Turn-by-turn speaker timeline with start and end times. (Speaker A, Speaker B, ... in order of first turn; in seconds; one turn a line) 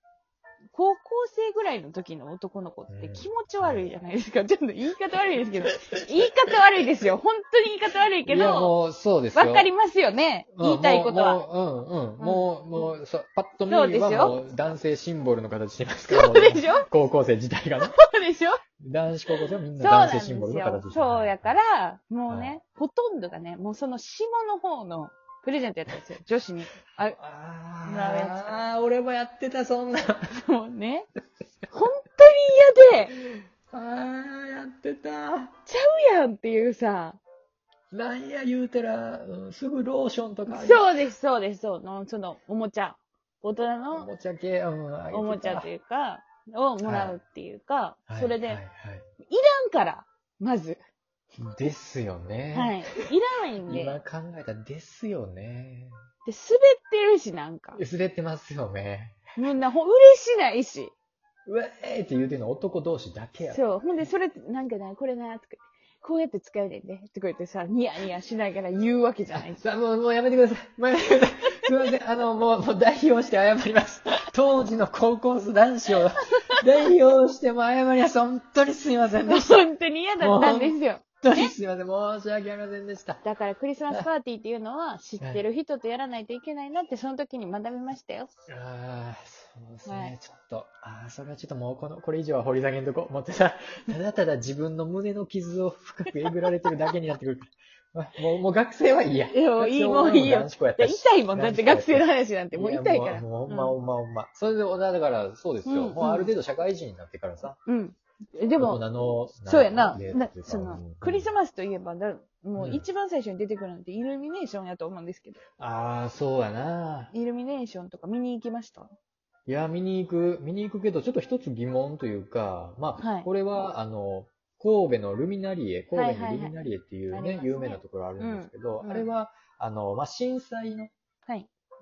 Speaker A: 0.7-8.7
Speaker B: 2.9-3.9
Speaker B: 8.2-9.7
Speaker A: 9.3-11.4
Speaker B: 10.5-17.9
Speaker A: 12.2-12.5
Speaker A: 13.7-14.4
Speaker A: 16.1-16.9
Speaker A: 17.8-18.6
Speaker B: 18.8-21.6
Speaker A: 19.4-27.2
Speaker B: 22.3-22.6
Speaker B: 27.0-30.4
Speaker A: 27.9-28.7
Speaker A: 30.3-31.1
Speaker A: 31.7-33.1
Speaker B: 33.1-35.5
Speaker A: 35.7-37.2
Speaker B: 37.9-41.0
Speaker A: 40.5-44.1
Speaker B: 43.9-45.7
Speaker A: 45.1-48.6
Speaker B: 46.8-47.2
Speaker B: 48.1-49.0
Speaker A: 49.3-50.8
Speaker B: 51.4-52.8
Speaker A: 52.5-54.0
Speaker B: 53.6-56.0
Speaker A: 56.2-57.8
Speaker B: 57.8-59.2
Speaker A: 59.4-60.9
Speaker B: 61.5-63.7
Speaker A: 63.5-69.6
Speaker B: 69.3-79.7
Speaker A: 79.3-81.5
Speaker B: 80.2-83.2
Speaker A: 83.2-88.3
Speaker B: 88.5-107.6
Speaker A: 89.8-90.1
Speaker A: 99.3-103.8
Speaker A: 105.7-106.3
Speaker A: 107.7-108.8
Speaker B: 108.6-111.3
Speaker A: 109.5-115.4
Speaker B: 112.6-112.8
Speaker B: 115.6-117.1
Speaker A: 117.1-118.9
Speaker B: 119.5-130.9
Speaker A: 123.0-123.3
Speaker A: 125.9-126.5
Speaker A: 127.1-129.1